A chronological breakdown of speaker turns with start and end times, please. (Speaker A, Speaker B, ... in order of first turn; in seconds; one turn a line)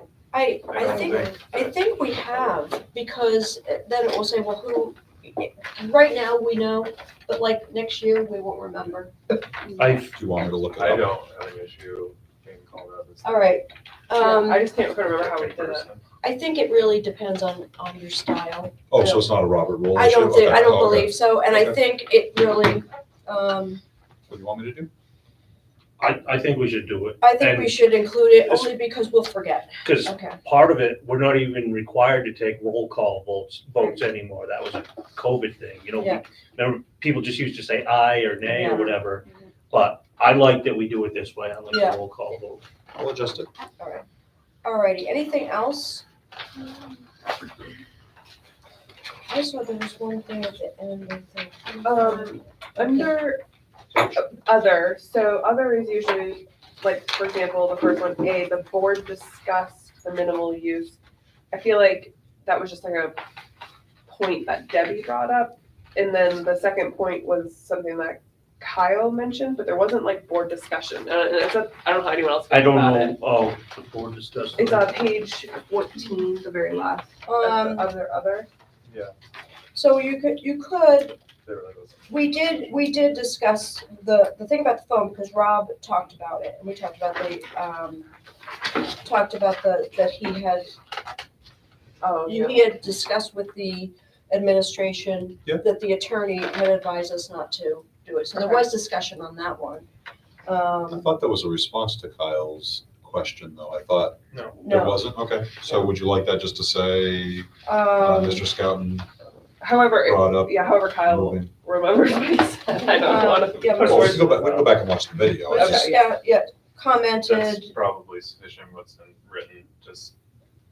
Speaker A: 0.3-9.8
Speaker B: 0.7-1.7
Speaker C: 9.8-10.1
Speaker D: 10.1-11.1
Speaker B: 10.7-13.6
Speaker A: 13.2-14.7
Speaker E: 14.1-15.8
Speaker B: 14.8-16.0
Speaker A: 16.2-19.2
Speaker D: 18.9-21.2
Speaker A: 19.9-23.8
Speaker D: 24.3-24.9
Speaker C: 26.0-27.8
Speaker A: 27.2-30.4
Speaker C: 28.5-28.7
Speaker C: 29.8-42.6
Speaker A: 38.4-39.0
Speaker A: 41.7-42.0
Speaker D: 42.9-43.5
Speaker A: 43.8-44.0
Speaker A: 44.6-46.0
Speaker A: 49.3-53.1
Speaker E: 51.8-53.4
Speaker E: 54.1-61.0
Speaker E: 61.5-63.2
Speaker E: 64.1-73.2
Speaker C: 72.5-75.0
Speaker E: 74.6-78.5
Speaker A: 77.2-77.9
Speaker B: 78.9-79.1
Speaker A: 79.7-81.2
Speaker B: 81.4-82.1
Speaker A: 82.1-88.1
Speaker A: 89.0-90.8
Speaker E: 92.0-92.7
Speaker A: 92.2-99.9
Speaker A: 100.5-101.1
Speaker D: 100.9-109.1
Speaker A: 104.6-105.1
Speaker A: 107.6-108.5
Speaker E: 109.6-114.8
Speaker D: 110.0-111.5
Speaker A: 113.0-114.2
Speaker D: 113.8-115.9
Speaker A: 115.5-117.7
Speaker E: 115.5-116.1
Speaker B: 117.2-120.1